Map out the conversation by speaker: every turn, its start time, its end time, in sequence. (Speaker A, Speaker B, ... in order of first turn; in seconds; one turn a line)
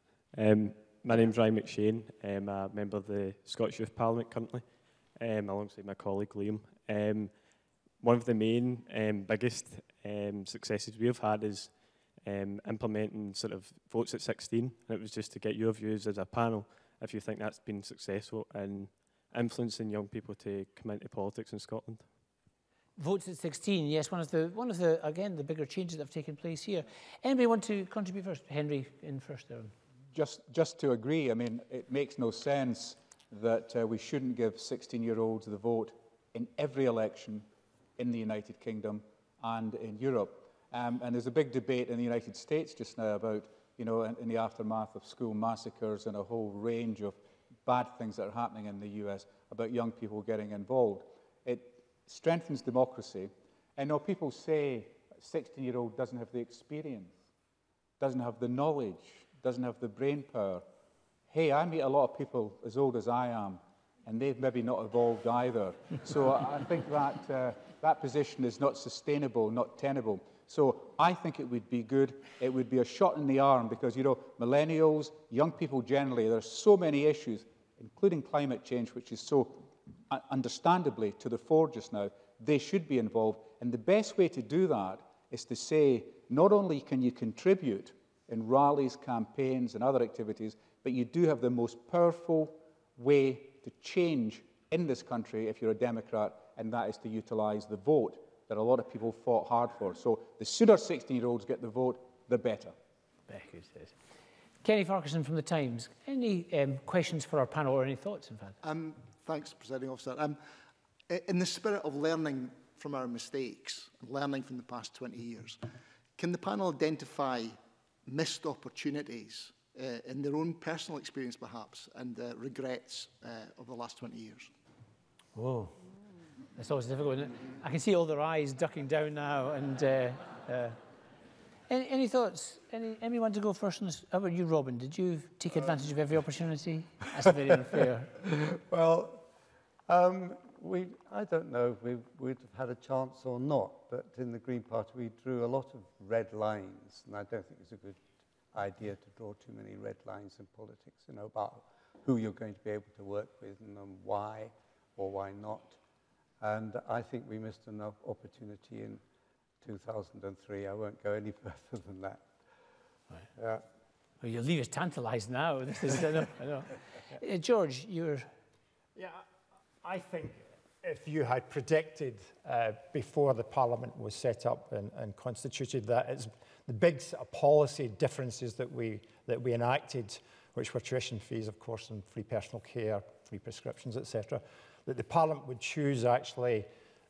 Speaker A: 0.3-22.1
Speaker B: 23.0-29.7
Speaker C: 30.1-37.5
Speaker C: 38.0-57.1
Speaker C: 58.0-60.6
Speaker C: 61.3-102.7
Speaker B: 103.3-104.0
Speaker B: 104.6-108.5
Speaker D: 108.6-110.4
Speaker D: 111.1-115.6
Speaker D: 116.2-124.5
Speaker B: 125.3-125.8
Speaker B: 126.5-130.8
Speaker B: 131.7-138.1
Speaker E: 138.2-139.2
Speaker E: 139.9-148.0
Speaker E: 148.5-155.8
Speaker E: 156.4-159.0
Speaker E: 159.6-162.3
Speaker E: 163.3-163.6
Speaker B: 164.2-168.3
Speaker F: 168.9-169.2
Speaker F: 169.8-186.7